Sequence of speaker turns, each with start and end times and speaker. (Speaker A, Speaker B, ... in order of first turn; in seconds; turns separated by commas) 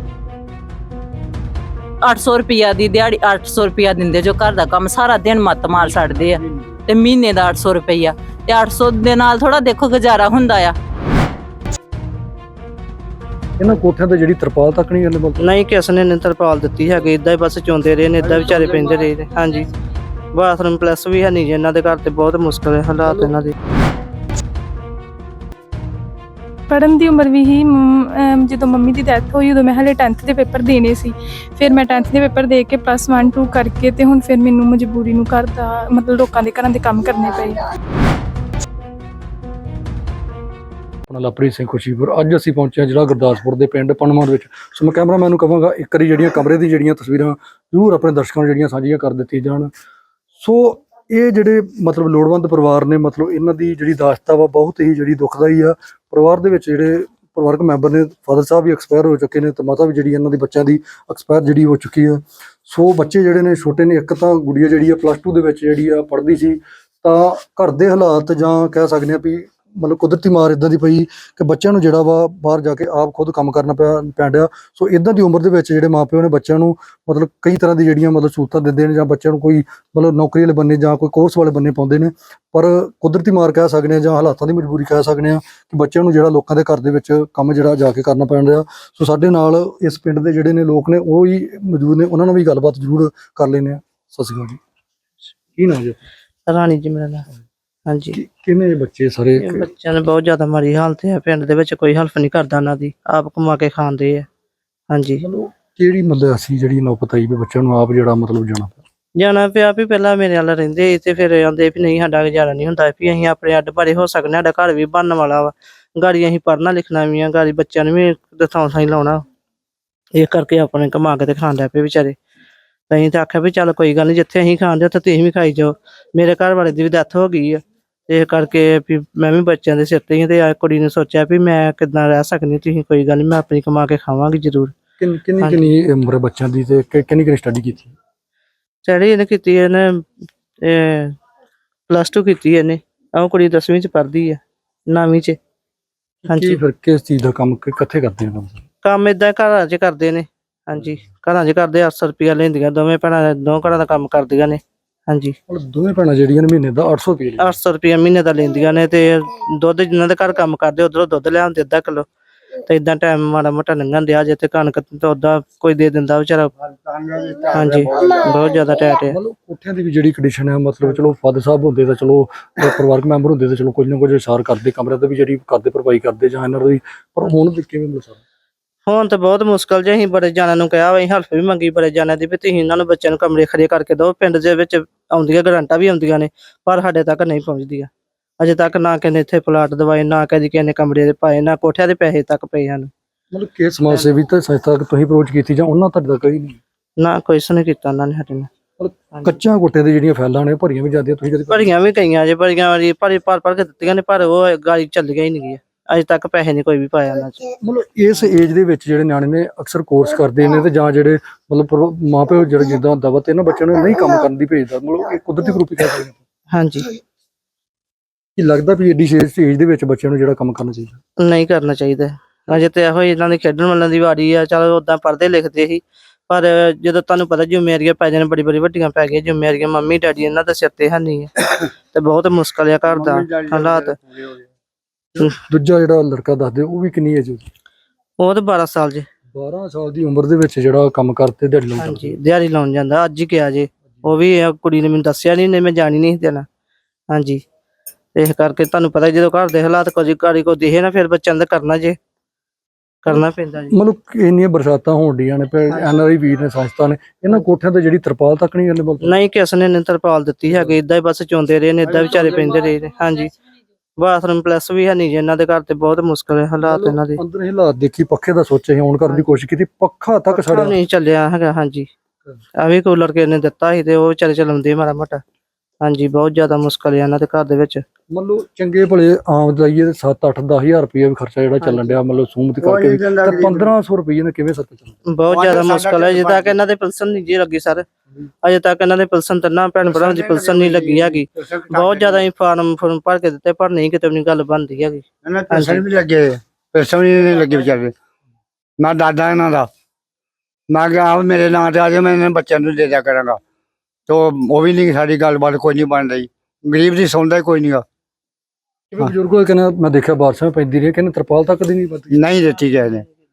Speaker A: 2.0-10.8, Speaker B: 13.6-15.4, Speaker C: 15.4-19.7, Speaker D: 18.5-18.9, Speaker C: 20.3-23.6, Speaker E: 26.7-37.6, Speaker B: 41.1-49.7, Speaker B: 50.4-94.6, Speaker B: 95.6-96.0, Speaker C: 96.5-97.3, Speaker C: 97.9-98.2, Speaker B: 98.1-99.7, Speaker C: 99.4-104.3, Speaker C: 104.9-105.2, Speaker B: 105.2-108.8, Speaker C: 109.2-119.2, Speaker C: 120.2-122.2, Speaker C: 122.9-134.8, Speaker B: 135.0-138.0, Speaker C: 138.8-140.1, Speaker C: 140.6-141.2, Speaker C: 141.9-145.4, Speaker B: 146.2-148.6, Speaker C: 146.3-146.6, Speaker C: 148.8-155.4, Speaker B: 155.5-157.6, Speaker C: 157.4-162.1, Speaker C: 162.6-166.5, Speaker D: 166.6-168.2, Speaker C: 167.5-169.2, Speaker B: 169.1-178.2, Speaker C: 178.9-187.9, Speaker C: 188.4-192.9, Speaker B: 193.3-196.6, Speaker C: 197.0-198.5, Speaker B: 198.8-201.7, Speaker C: 201.5-207.4, Speaker B: 207.6-216.2, Speaker C: 216.5-216.9, Speaker B: 218.4-221.0, Speaker C: 221.2-234.0, Speaker D: 232.9-234.5, Speaker B: 235.1-237.5, Speaker C: 238.2-239.1, Speaker B: 239.3-242.2, Speaker C: 241.8-246.5, Speaker C: 247.1-247.4, Speaker C: 248.2-252.0, Speaker C: 253.1-253.7, Speaker B: 253.1-259.1, Speaker C: 259.0-263.3, Speaker B: 261.9-262.5, Speaker C: 264.0-267.2, Speaker B: 266.6-270.8, Speaker C: 270.3-271.9, Speaker C: 272.6-275.2, Speaker C: 275.8-277.8, Speaker B: 278.1-285.1, Speaker C: 281.6-282.0, Speaker D: 282.6-283.7, Speaker C: 285.1-287.9, Speaker D: 285.3-286.6, Speaker C: 288.4-295.8, Speaker D: 289.8-292.3, Speaker D: 295.2-297.9, Speaker D: 298.8-299.7, Speaker D: 300.7-303.4, Speaker D: 304.1-307.8, Speaker B: 308.9-312.2, Speaker D: 312.1-313.1